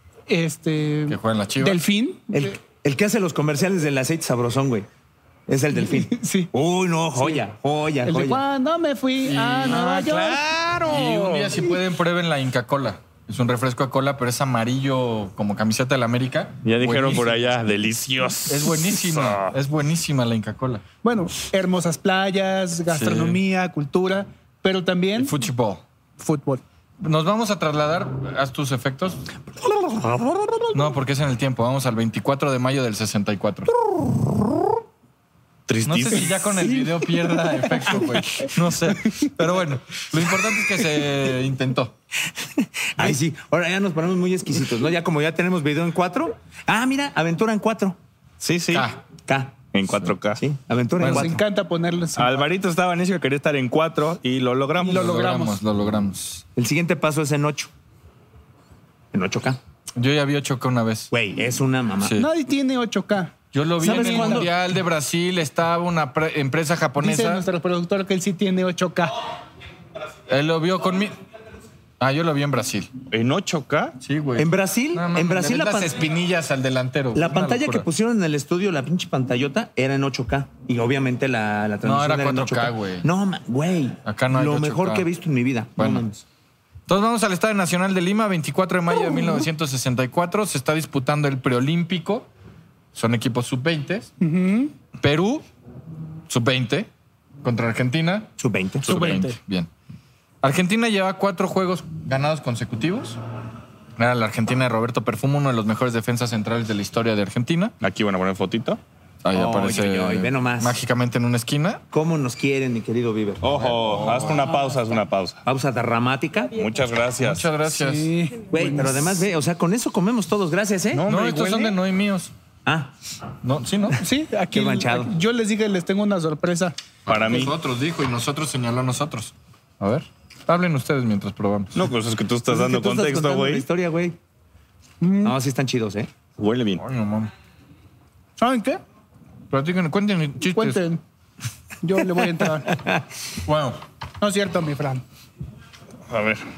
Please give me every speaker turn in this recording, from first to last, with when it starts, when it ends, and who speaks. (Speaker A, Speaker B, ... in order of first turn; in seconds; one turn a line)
Speaker A: 0.3-2.5
Speaker B: 1.1-1.8
Speaker C: 2.3-4.9
Speaker C: 5.5-8.4
Speaker A: 5.8-6.5
Speaker A: 7.2-7.4
Speaker A: 8.0-10.4
Speaker B: 9.2-17.8
Speaker D: 10.0-11.6
Speaker D: 16.6-19.6
Speaker B: 18.5-20.8
Speaker A: 21.0-25.3
Speaker B: 22.9-23.4
Speaker B: 25.1-25.8
Speaker A: 26.2-26.6
Speaker B: 27.0-29.3
Speaker C: 29.8-30.6
Speaker B: 30.7-33.7
Speaker D: 35.7-36.4
Speaker B: 35.8-41.9
Speaker A: 37.8-38.4
Speaker C: 42.4-48.0
Speaker D: 48.4-48.9
Speaker B: 48.7-49.0
Speaker C: 49.3-49.6
Speaker D: 49.7-50.4
Speaker C: 50.4-51.4
Speaker A: 51.0-52.5
Speaker B: 51.0-51.3
Speaker D: 52.2-55.0
Speaker A: 54.8-55.6
Speaker B: 54.9-56.4
Speaker C: 56.5-57.7
Speaker C: 59.1-59.6
Speaker B: 60.0-61.1
Speaker C: 61.1-62.2
Speaker B: 62.0-62.3
Speaker A: 62.2-64.5
Speaker B: 63.5-67.4
Speaker C: 63.8-64.5
Speaker A: 67.0-69.2
Speaker B: 70.3-71.1
Speaker B: 72.0-72.9
Speaker D: 73.1-74.0
Speaker B: 74.0-77.8
Speaker C: 74.4-76.0
Speaker C: 77.1-86.2
Speaker B: 81.8-83.1
Speaker B: 84.0-85.0
Speaker B: 85.8-86.0
Speaker B: 86.9-92.3
Speaker B: 92.9-94.1
Speaker A: 94.2-94.7
Speaker B: 95.0-95.4
Speaker B: 96.3-96.9
Speaker B: 97.4-98.3
Speaker C: 98.4-98.9
Speaker B: 98.8-99.7
Speaker A: 98.9-99.4
Speaker B: 100.4-103.2
Speaker B: 104.0-107.7
Speaker D: 107.8-108.8
Speaker B: 109.2-111.8
Speaker C: 109.3-110.8
Speaker C: 111.9-113.7
Speaker D: 113.4-115.4
Speaker B: 113.7-114.5
Speaker C: 115.4-116.5
Speaker D: 116.5-117.5
Speaker B: 117.2-118.1
Speaker A: 117.7-119.2
Speaker C: 118.5-121.0
Speaker D: 120.9-121.8
Speaker B: 121.1-122.3
Speaker C: 122.7-122.9
Speaker B: 123.4-124.0
Speaker A: 124.0-126.8
Speaker C: 124.5-125.1
Speaker D: 127.0-127.5
Speaker B: 127.0-131.8
Speaker D: 131.8-133.7
Speaker C: 132.5-134.2
Speaker A: 135.0-135.3
Speaker C: 135.2-136.1
Speaker D: 136.4-136.8
Speaker B: 136.8-137.3
Speaker A: 138.4-138.8
Speaker B: 139.5-140.8
Speaker A: 140.5-141.0
Speaker A: 141.8-142.8
Speaker C: 142.7-143.0
Speaker B: 143.4-143.8
Speaker A: 144.2-145.0
Speaker D: 146.1-146.4